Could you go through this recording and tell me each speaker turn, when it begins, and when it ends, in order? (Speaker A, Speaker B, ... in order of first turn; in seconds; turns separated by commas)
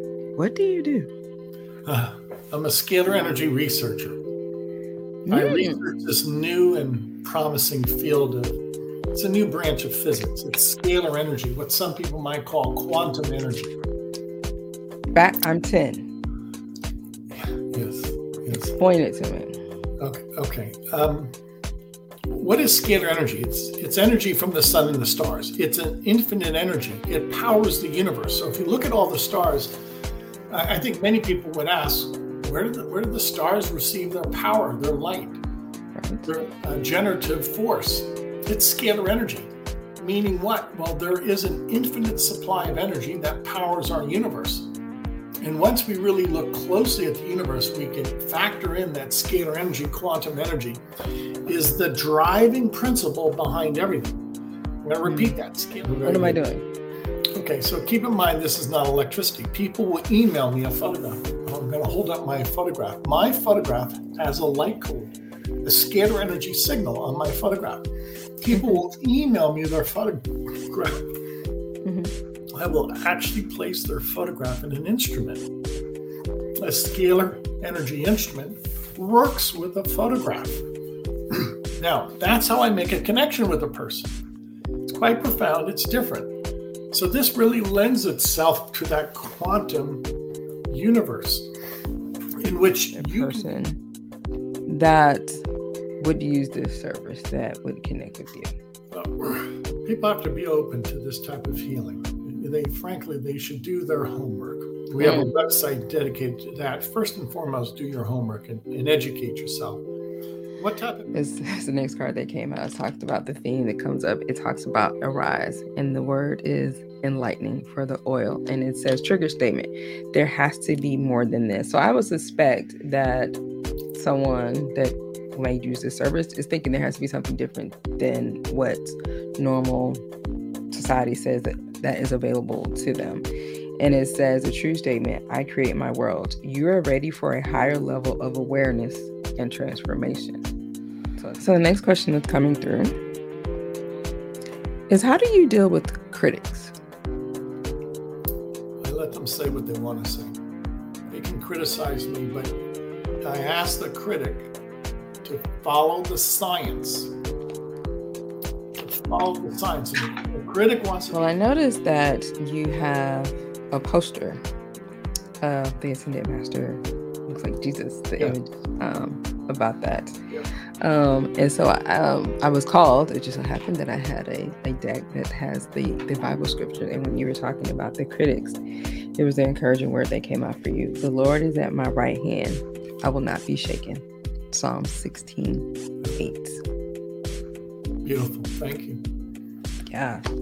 Speaker A: 0.4-1.1, Speaker B: 1.9-4.2, Speaker A: 5.3-5.8, Speaker B: 5.3-8.6, Speaker B: 9.1-13.7, Speaker A: 15.1-16.1, Speaker B: 17.3-18.8, Speaker A: 18.6-19.6, Speaker B: 20.0-21.3, Speaker B: 22.3-29.7, Speaker B: 30.5-35.4, Speaker A: 36.0-36.3, Speaker B: 36.3-44.7, Speaker B: 45.4-50.8, Speaker B: 51.5-54.2, Speaker B: 54.8-56.4, Speaker A: 55.0-55.4, Speaker A: 56.0-56.6, Speaker B: 57.4-67.9, Speaker B: 68.4-71.1, Speaker A: 68.5-68.8, Speaker A: 71.8-72.1, Speaker B: 72.5-75.5, Speaker B: 76.6-80.6, Speaker B: 81.3-84.2, Speaker B: 84.8-86.3, Speaker B: 86.9-90.1, Speaker B: 90.7-91.5, Speaker B: 92.4-93.5, Speaker A: 93.0-93.8, Speaker A: 94.7-95.5, Speaker A: 96.0-98.5, Speaker B: 98.9-109.8, Speaker A: 105.0-105.3, Speaker B: 110.6-111.2, Speaker A: 111.1-123.4, Speaker A: 124.0-130.0, Speaker A: 130.7-133.3, Speaker A: 133.8-140.5, Speaker A: 141.2-142.9, Speaker A: 144.9-146.7, Speaker B: 148.8-150.4, Speaker B: 151.1-152.6, Speaker B: 153.2-154.5, Speaker B: 155.2-157.1, Speaker B: 158.8-161.3, Speaker A: 161.1-164.4, Speaker A: 165.4-170.2, Speaker A: 170.8-178.6, Speaker A: 179.2-186.6, Speaker B: 188.0-189.0, Speaker A: 189.9-190.2